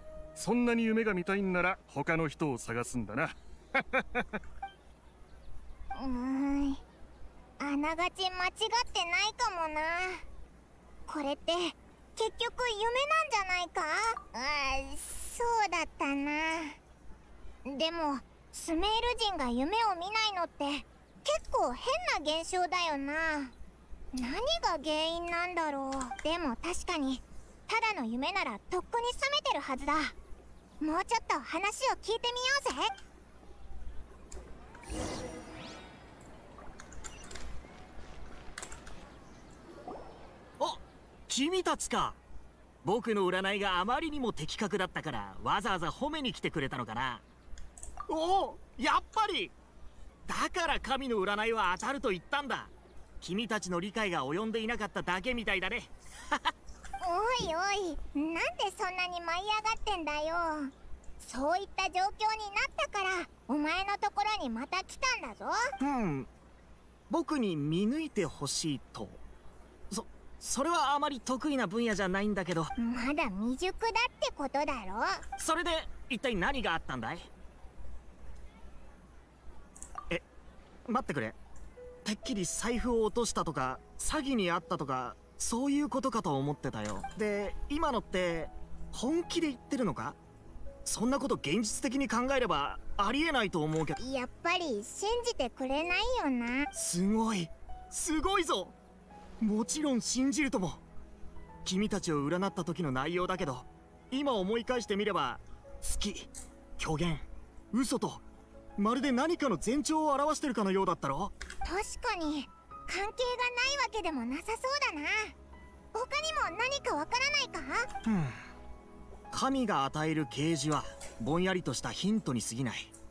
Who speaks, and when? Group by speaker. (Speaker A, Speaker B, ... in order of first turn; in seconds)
Speaker A: 0.4-4.4
Speaker B: 6.0-6.8, 7.6-10.2, 11.1-16.8, 17.6-23.5, 24.1-30.1, 30.8-32.9, 57.0-65.6, 72.8-75.2, 94.0-96.7, 111.6-115.3, 115.9-117.9
Speaker C: 40.6-42.2, 42.8-47.2, 48.1-49.5, 50.3-56.5, 65.8-66.3, 67.1-69.2, 69.9-72.7, 75.4-77.3, 80.9-81.4, 82.0-90.2, 90.9-94.0, 96.7-98.8, 99.4-100.8, 101.6-108.2, 108.8-111.3, 118.0-118.4, 119.3-122.9